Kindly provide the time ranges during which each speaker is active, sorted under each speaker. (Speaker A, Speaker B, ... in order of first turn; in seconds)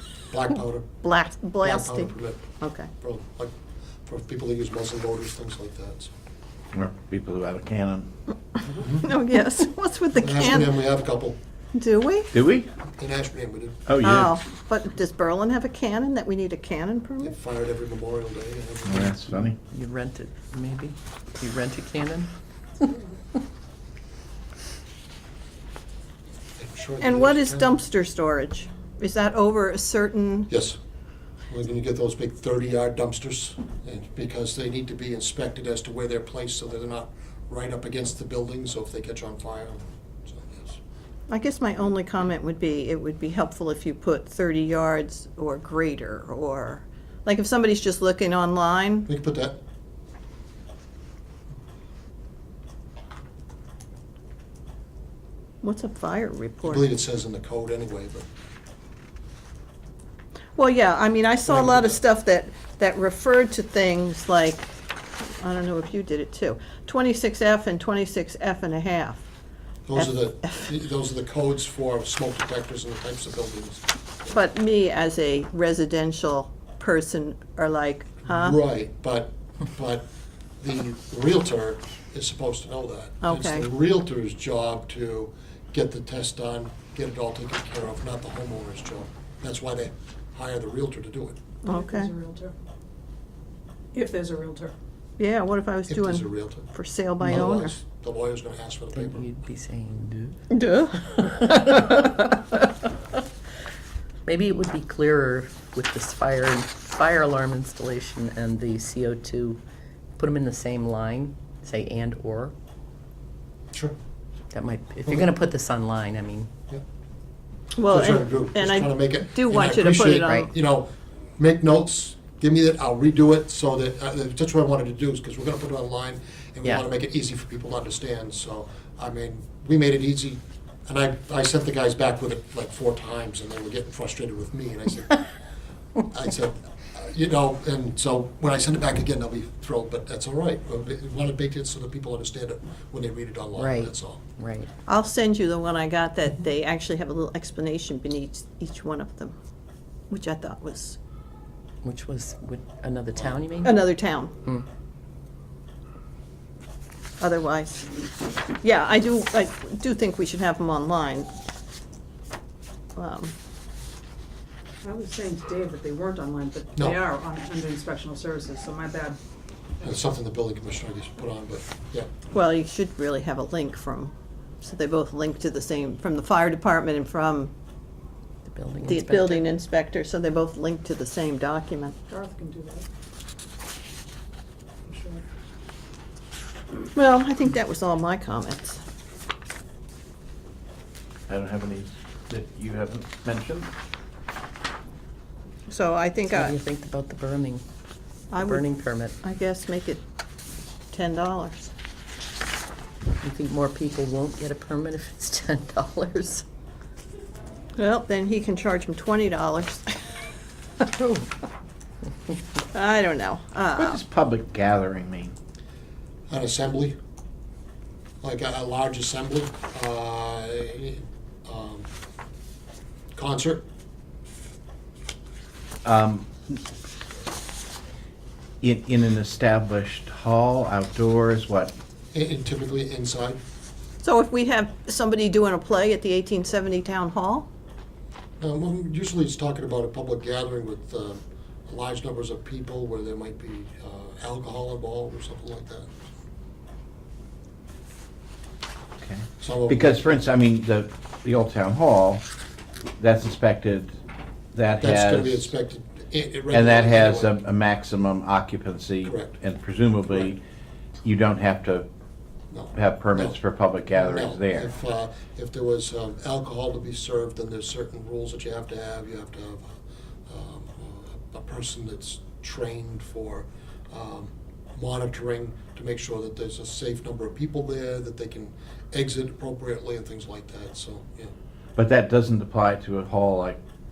Speaker A: 0.3-0.9, 1.6-3.5, 4.0-6.1, 8.7-9.1, 10.2-11.4, 12.9-13.8, 17.2-19.6, 26.6-27.8, 30.5-30.8, 31.5-40.8, 49.1-49.6, 56.6-58.3, 61.5-62.0, 69.9-74.3, 78.3-80.0, 80.6-91.4, 95.9-96.7, 97.2-99.3, 115.1-115.3, 117.8-135.2, 136.1-144.2, 169.8-172.1, 216.3-217.0, 218.2-221.9, 223.2-223.6, 232.1-233.4, 238.4-245.9, 249.4-250.2, 254.8-257.3, 259.0-259.3, 260.1-260.4, 262.5-263.4, 263.9-269.8, 270.3-281.3
Speaker B: 1.0-2.9, 9.0-10.8, 11.7-12.3, 14.0-17.4, 27.0-30.5, 41.3-49.1, 55.6-56.9, 60.6-69.2, 70.0-70.7, 74.3-78.6, 83.2-83.7, 91.6-92.1, 95.2-97.8, 100.5-101.3, 117.8-120.5, 144.9-149.3, 150.1-151.0, 153.6-154.3, 157.2-157.9, 158.6-161.3, 163.0-163.3, 172.3-177.5, 178.8-182.0, 186.9-188.8, 195.7-196.6, 198.3-200.0, 200.9-201.7, 207.8-210.0, 212.7-214.0, 234.0-237.5
Speaker C: 6.7-8.1, 12.3-12.7, 13.9-14.4, 18.9-19.6, 191.3-193.7, 213.8-215.3, 225.8-226.6, 228.6-231.7, 249.0-252.2, 253.0-253.9, 254.6-255.5, 256.5-260.4, 261.0-261.9, 262.8-264.7, 281.8-283.6
Speaker D: 19.7-22.3, 98.9-100.4, 101.1-102.1, 104.2-109.6, 110.2-112.5, 114.5-116.5, 143.6-144.7, 151.8-153.8, 178.5-179.4, 196.3-197.6, 198.3-199.2, 203.2-206.4, 211.0-211.2
Speaker E: 91.7-92.5, 93.9-94.7, 164.8-169.2, 182.1-182.8, 184.8-185.2